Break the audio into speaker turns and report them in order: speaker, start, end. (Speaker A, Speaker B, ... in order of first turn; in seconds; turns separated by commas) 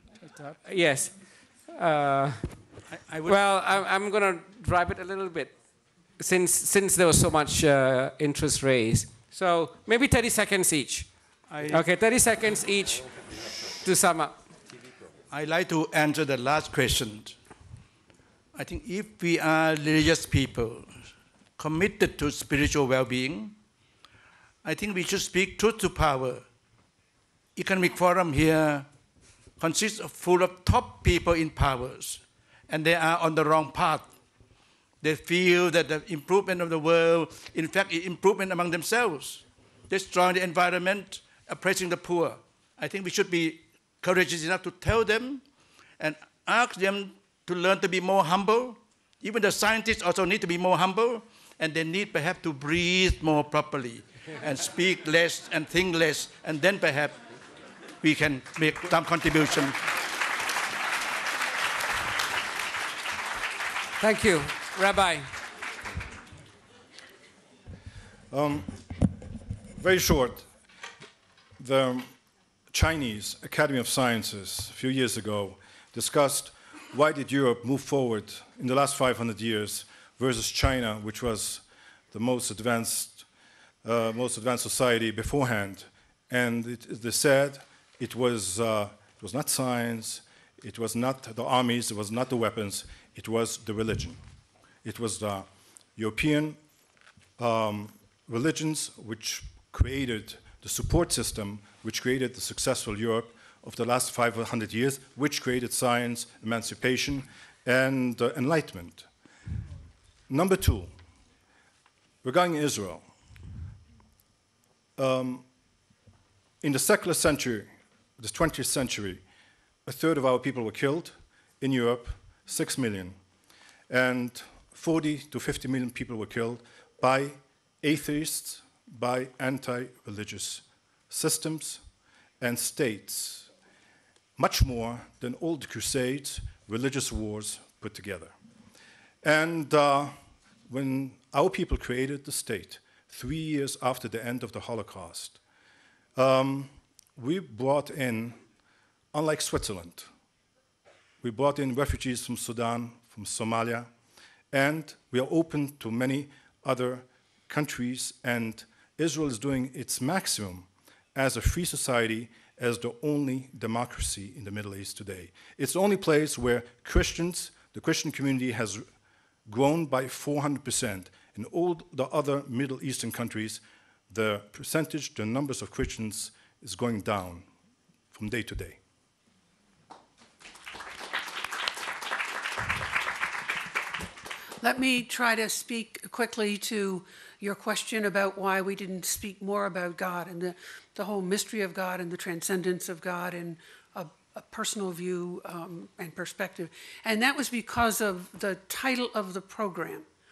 Speaker A: 0.4-2.7, Speaker B: 2.9-3.8, Speaker A: 3.2-5.6, Speaker A: 6.2-13.2, Speaker B: 11.5-11.9, Speaker A: 13.8-14.4, Speaker B: 15.3-17.4, Speaker B: 18.6-23.6, Speaker B: 24.6-26.5, Speaker B: 27.6-28.9, Speaker B: 29.6-34.1, Speaker B: 35.0-45.4, Speaker B: 46.0-57.2, Speaker B: 58.0-59.8, Speaker A: 64.0-65.4, Speaker C: 68.3-69.2, Speaker C: 69.8-70.5, Speaker C: 71.6-72.2, Speaker C: 72.7-83.3, Speaker C: 83.8-94.2, Speaker C: 94.8-96.6, Speaker C: 97.4-109.1, Speaker C: 110.3-110.9, Speaker C: 112.2-113.1, Speaker C: 115.0-115.5, Speaker C: 116.6-119.2, Speaker C: 119.8-123.2, Speaker C: 123.9-131.8, Speaker C: 132.4-133.5, Speaker C: 134.4-138.3, Speaker C: 139.2-140.2, Speaker C: 140.7-145.4, Speaker C: 146.2-148.4, Speaker C: 149.1-150.1, Speaker C: 151.2-153.9, Speaker C: 154.5-168.9, Speaker C: 169.5-177.5, Speaker C: 178.1-178.8, Speaker D: 184.6-200.1